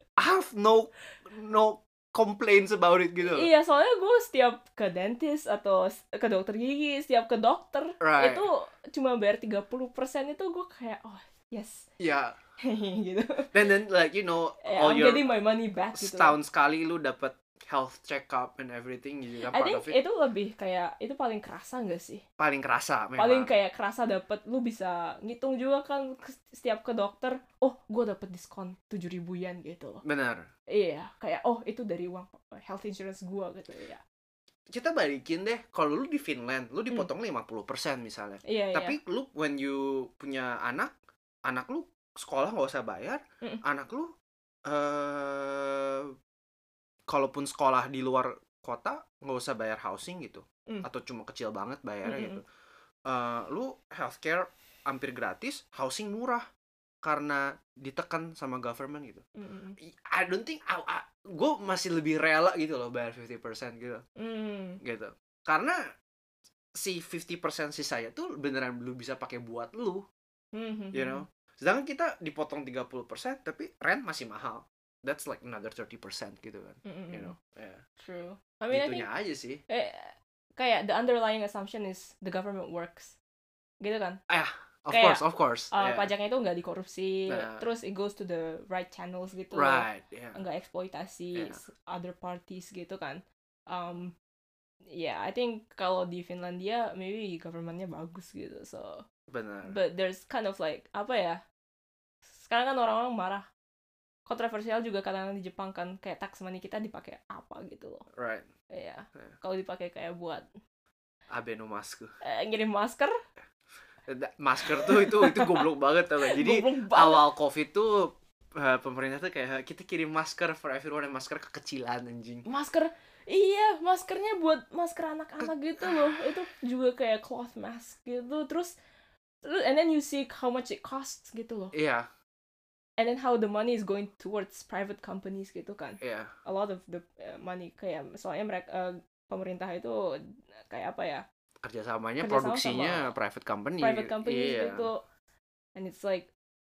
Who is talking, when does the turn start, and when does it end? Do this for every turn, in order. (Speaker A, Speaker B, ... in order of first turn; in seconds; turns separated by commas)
Speaker A: 0.2-3.5, Speaker B: 3.2-11.9, Speaker A: 8.0-8.4, Speaker A: 12.0-12.4, Speaker B: 12.6-13.5, Speaker A: 13.5-15.2, Speaker B: 14.6-16.4, Speaker A: 15.9-20.0, Speaker B: 19.4-22.2, Speaker A: 22.4-23.5, Speaker B: 23.2-30.0, Speaker A: 30.0-30.5, Speaker B: 30.7-34.0, Speaker A: 34.7-40.9, Speaker B: 38.4-39.0, Speaker A: 41.5-44.1, Speaker A: 44.6-46.1, Speaker A: 47.1-52.4, Speaker B: 52.0-52.4, Speaker A: 53.1-56.4, Speaker A: 57.0-59.2, Speaker B: 59.4-59.8, Speaker A: 59.8-64.0, Speaker B: 64.2-64.8, Speaker A: 64.8-65.8, Speaker A: 66.7-70.0, Speaker B: 70.5-71.2, Speaker A: 70.9-77.8, Speaker B: 76.8-77.3, Speaker B: 78.0-79.1, Speaker A: 78.7-79.6, Speaker B: 79.7-83.2, Speaker B: 83.8-84.2, Speaker A: 84.3-86.1, Speaker B: 84.9-94.1, Speaker A: 87.3-87.6, Speaker A: 89.5-90.4, Speaker A: 91.3-91.6, Speaker B: 94.9-99.0, Speaker A: 99.3-99.8, Speaker B: 99.7-101.4, Speaker B: 102.3-103.5, Speaker B: 104.2-108.0, Speaker A: 108.1-108.5, Speaker B: 108.7-110.5, Speaker A: 111.3-112.1, Speaker B: 112.2-113.1, Speaker A: 114.1-122.5, Speaker B: 114.6-115.7, Speaker B: 116.2-117.2, Speaker B: 122.5-128.8, Speaker A: 125.8-126.3, Speaker B: 129.4-131.7, Speaker A: 131.7-132.1, Speaker B: 133.0-141.2, Speaker A: 136.0-136.3, Speaker A: 141.6-144.9, Speaker B: 142.2-143.1, Speaker B: 143.8-145.0, Speaker B: 145.8-146.3